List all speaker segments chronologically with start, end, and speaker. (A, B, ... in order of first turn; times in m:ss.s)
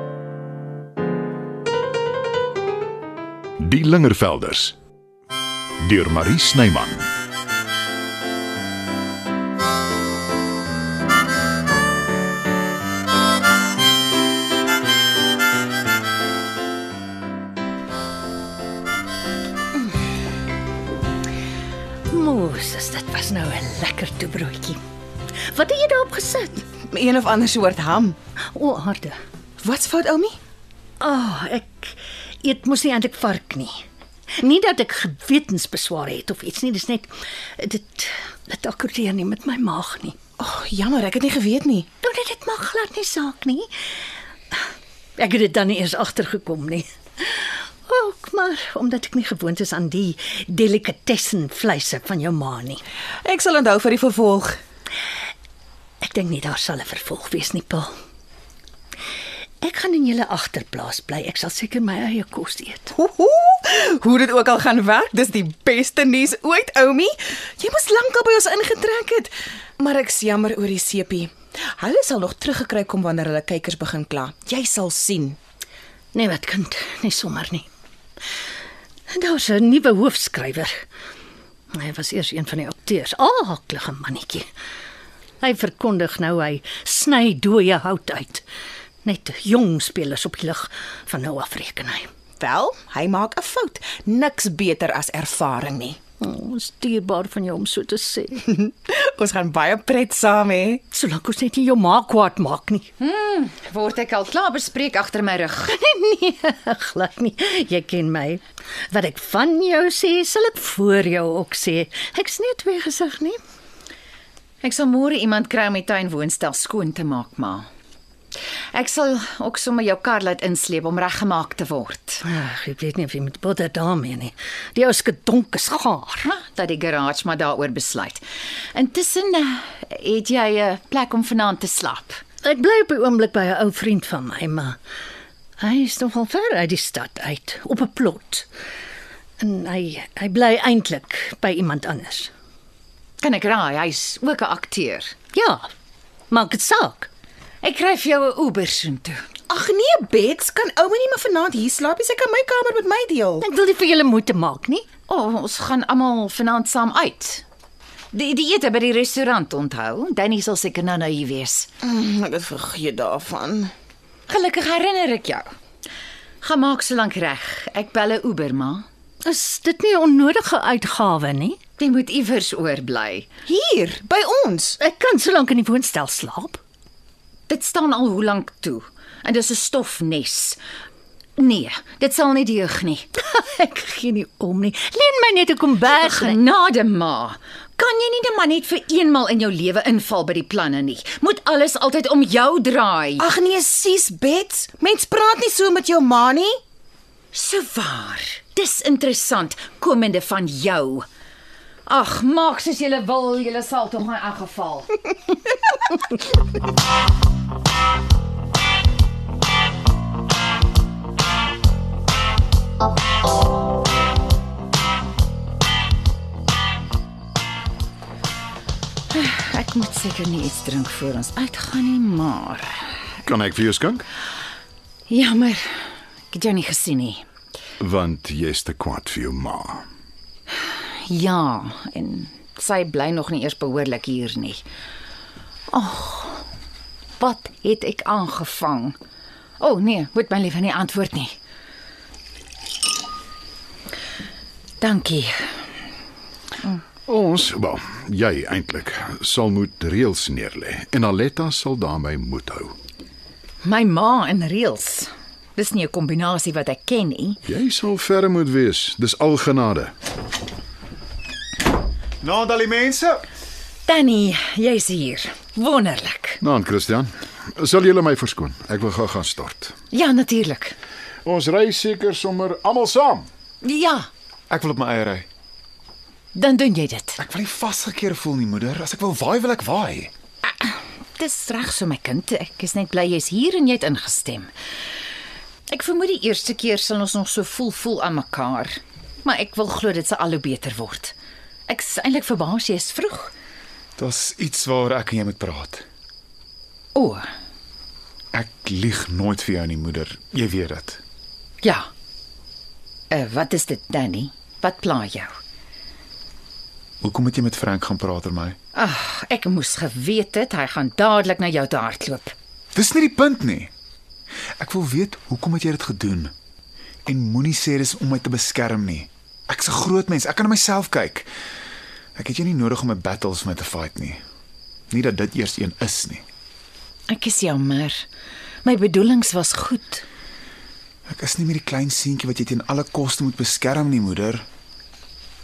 0:03.6-0:04.8 A
0:05.8-0:07.0 A
0:22.1-0:24.8 B
0:25.5-0:26.6 B
0:26.9-0:28.2 C
0:28.5-0:29.2 B
0:29.6-0:30.4 C
0:31.0-0:33.8 B
0:34.4-0:40.1 B
0:40.4-0:41.9 C
0:42.0-0:43.7 B
0:45.2-0:52.8 B
0:53.2-0:54.6 C
0:56.0-0:57.9 B
0:59.6-1:02.9 B
1:02.9-1:15.4 C
1:16.1-1:17.6 B
1:19.1-1:20.7 B
1:21.8-1:24.5 B
1:25.4-1:28.4 B
1:29.0-1:32.1 B
1:32.4-1:36.0 C
1:36.2-1:38.4 B
1:38.4-1:40.8 C
1:40.9-1:42.9 B
1:43.0-1:45.7 D
1:45.7-1:53.4 B
1:54.6-1:57.7 D
1:58.7-2:02.2 D
2:02.2-2:06.3 B
2:06.2-2:08.2 D
2:08.7-2:12.2 D
2:12.4-2:14.8 B
2:15.6-2:18.5 B
2:19.4-2:22.3 B
2:23.2-2:25.1 D
2:25.3-2:25.6 B
2:26.3-2:27.1 B
2:27.6-2:29.2 D
2:29.5-2:33.4 C
2:33.4-2:34.8 B
2:35.1-2:37.4 D
2:38.1-2:41.7 D
2:41.8-2:43.7 C
2:44.3-2:45.5 D
2:46.4-2:48.8 D
2:49.2-2:51.6 B
2:51.8-2:53.3 D
2:53.5-2:54.8 C
2:54.8-2:56.6 B
2:57.5-3:00.6 D
3:01.4-3:03.1 D
3:03.2-3:06.4 B
3:05.9-3:13.2 D
3:13.2-3:16.6 C
3:17.3-3:21.0 D
3:21.8-3:24.9 D
3:39.1-3:43.0 D
3:43.2-3:44.0 A
3:45.1-3:47.2 D
3:47.8-3:49.8 A
3:50.6-3:54.6 D
3:55.7-3:56.5 D
3:57.2-3:59.0 D
3:59.6-4:01.3 D
4:04.8-4:05.4 D
4:07.0-4:12.8 A
4:13.6-4:17.4 D
4:17.4-4:19.9 A
4:22.2-4:23.2 E
4:23.8-4:26.4 D
4:26.4-4:29.7 A
4:29.9-4:30.8 D
4:31.2-4:33.3 A
4:33.6-4:34.1 D
4:34.5-4:35.2 E
4:36.3-4:37.2 D
4:37.2-4:40.1 E
4:40.4-4:44.5 D
4:45.7-4:51.1 D
4:51.7-4:53.3 D
4:54.0-4:55.8 E
4:56.9-4:57.2 D
4:58.3-5:01.0 E
5:01.6-5:01.9 D
5:03.1-5:05.3 D
5:07.0-5:08.6 E
5:08.7-5:12.3 D
5:12.7-5:13.7 E
5:14.6-5:16.3 E
5:17.0-5:21.3 E
5:22.2-5:24.2 E
5:24.9-5:26.2 E
5:27.1-5:28.0 D
5:28.6-5:30.0 D
5:31.1-5:34.4 E